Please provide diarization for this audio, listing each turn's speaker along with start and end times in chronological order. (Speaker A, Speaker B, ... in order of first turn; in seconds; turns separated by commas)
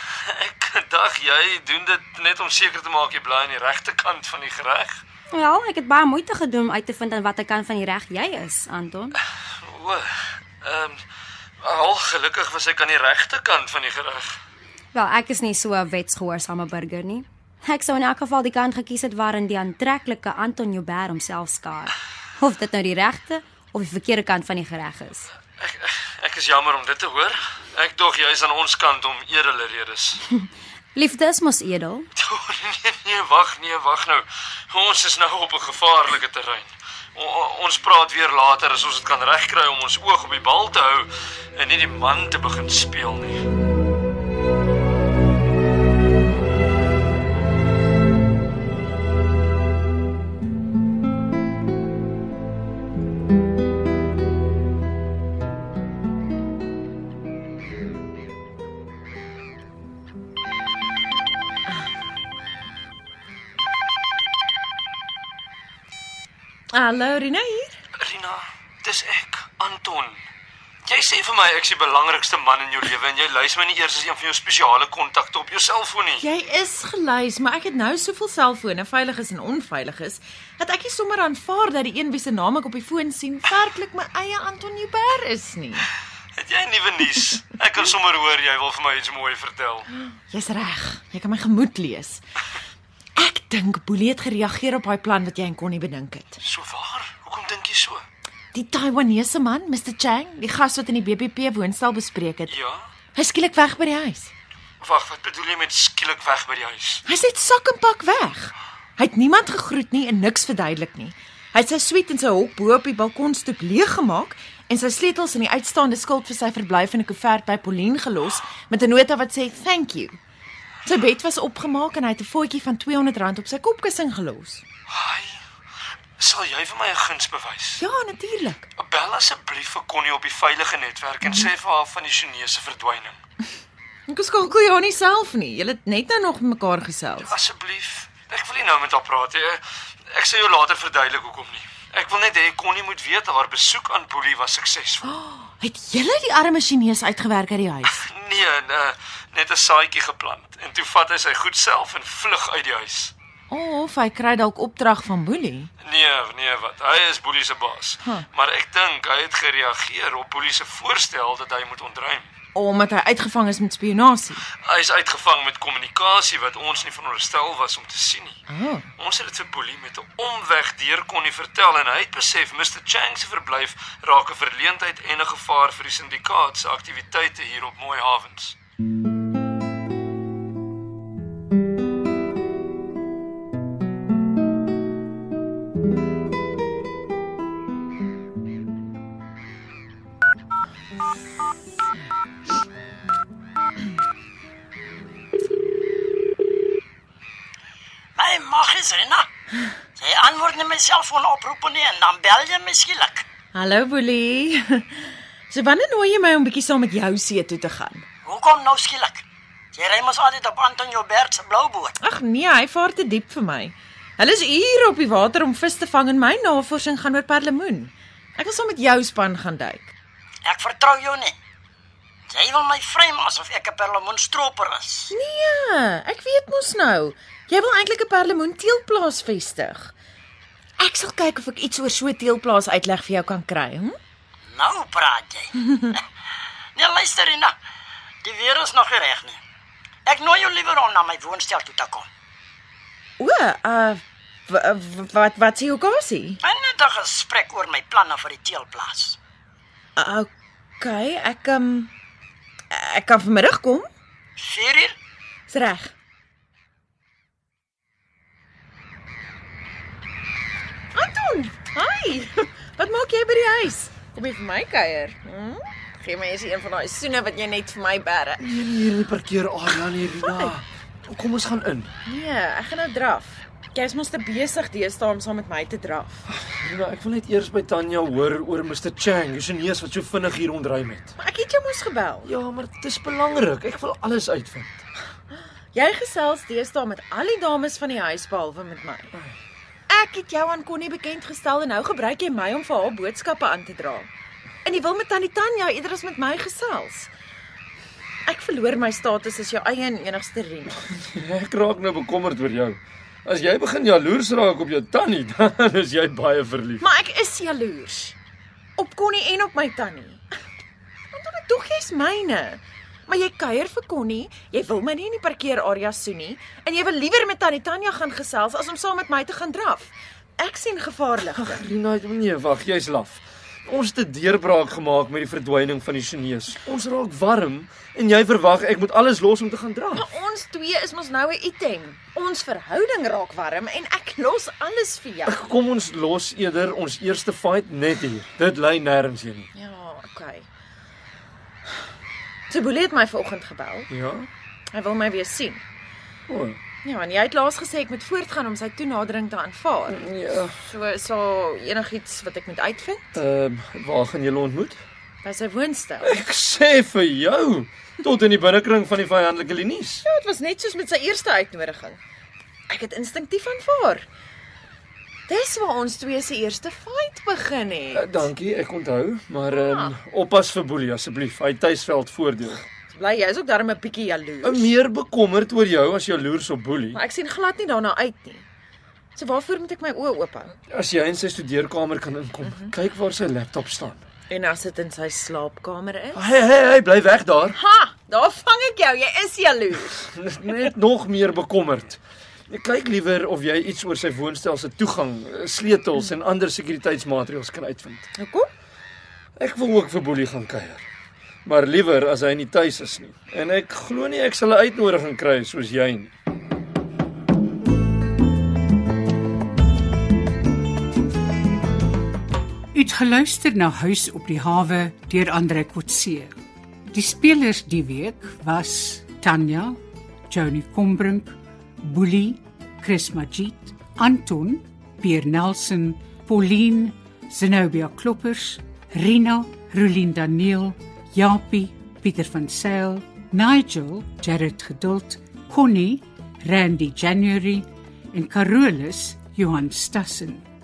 Speaker A: 0.3-5.0, Speaker B: 5.3-9.2, Speaker A: 9.6-11.0, Speaker A: 11.6-14.4, Speaker B: 14.9-25.3, Speaker A: 25.6-30.2, Speaker B: 30.9-32.1, Speaker A: 32.1-43.5, Speaker C: 66.7-67.7, Speaker A: 68.0-70.2, Speaker A: 70.8-76.2, Speaker C: 76.2-85.8, Speaker A: 86.3-89.9, Speaker C: 90.0-92.2, Speaker C: 93.2-96.4, Speaker A: 96.4-98.0, Speaker C: 98.5-102.5, Speaker A: 102.5-102.9, Speaker C: 103.2-104.3, Speaker A: 104.8-107.0, Speaker C: 107.0-120.2, Speaker C: 120.8-124.6, Speaker A: 124.9-125.4, Speaker A: 126.2-127.8, Speaker C: 127.8-128.6, Speaker A: 128.8-133.2, Speaker C: 131.2-131.5, Speaker C: 134.1-137.3, Speaker A: 137.2-145.2, Speaker C: 145.0-148.1, Speaker A: 147.9-153.1, Speaker C: 153.5-155.7, Speaker A: 155.8-162.3, Speaker C: 162.5-164.4, Speaker A: 164.6-168.4, Speaker C: 168.5-168.9, Speaker A: 169.0-178.6, Speaker D: 198.2-199.3, Speaker D: 200.0-203.2, Speaker C: 203.5-208.1, Speaker D: 208.2-212.0, Speaker C: 212.0-219.9, Speaker D: 220.4-221.3, Speaker D: 222.3-225.1, Speaker C: 225.1-229.9, Speaker C: 230.8-233.9, Speaker D: 234.5-236.0, Speaker D: 236.8-237.6, Speaker D: 238.2-239.4, Speaker D: 240.1-242.1, Speaker C: 243.2-246.4, Speaker D: 246.4-249.2, Speaker C: 250.0-250.3, Speaker C: 250.8-251.9, Speaker C: 252.7-253.9, Speaker D: 254.4-254.9, Speaker C: 255.5-255.9, Speaker C: 260.9-268.4, Speaker A: 268.4-271.9, Speaker C: 270.0-270.5, Speaker C: 272.1-276.2, Speaker A: 276.4-281.1, Speaker C: 281.2-282.3, Speaker A: 282.2-284.8, Speaker C: 285.7-289.1, Speaker C: 289.9-294.1, Speaker C: 294.6-297.1, Speaker C: 298.2-300.8, Speaker A: 300.9-306.8, Speaker C: 306.8-308.1, Speaker C: 308.8-310.2, Speaker C: 311.1-321.6, Speaker A: 321.3-330.1, Speaker C: 329.9-335.4, Speaker A: 335.3-339.5, Speaker C: 339.5-340.5, Speaker C: 342.5-343.9, Speaker A: 343.9-344.3, Speaker C: 344.7-345.6, Speaker A: 346.3-346.6, Speaker C: 346.8-353.1, Speaker A: 349.9-350.5, Speaker A: 353.1-354.8, Speaker C: 355.2-356.2, Speaker A: 356.0-360.0, Speaker C: 360.0-362.0, Speaker C: 362.7-364.0, Speaker C: 365.3-368.3, Speaker A: 367.9-372.6, Speaker C: 369.5-369.9, Speaker C: 372.9-374.7, Speaker A: 374.4-377.0, Speaker C: 376.9-378.4, Speaker C: 379.1-380.5, Speaker A: 380.7-384.0, Speaker C: 382.4-382.7, Speaker C: 384.3-386.2, Speaker A: 386.1-387.6, Speaker C: 387.5-390.0, Speaker A: 390.1-398.1, Speaker C: 398.2-398.5, Speaker A: 399.4-400.8, Speaker A: 401.4-406.1, Speaker E: 412.7-416.3, Speaker E: 416.9-419.8, Speaker E: 420.3-440.4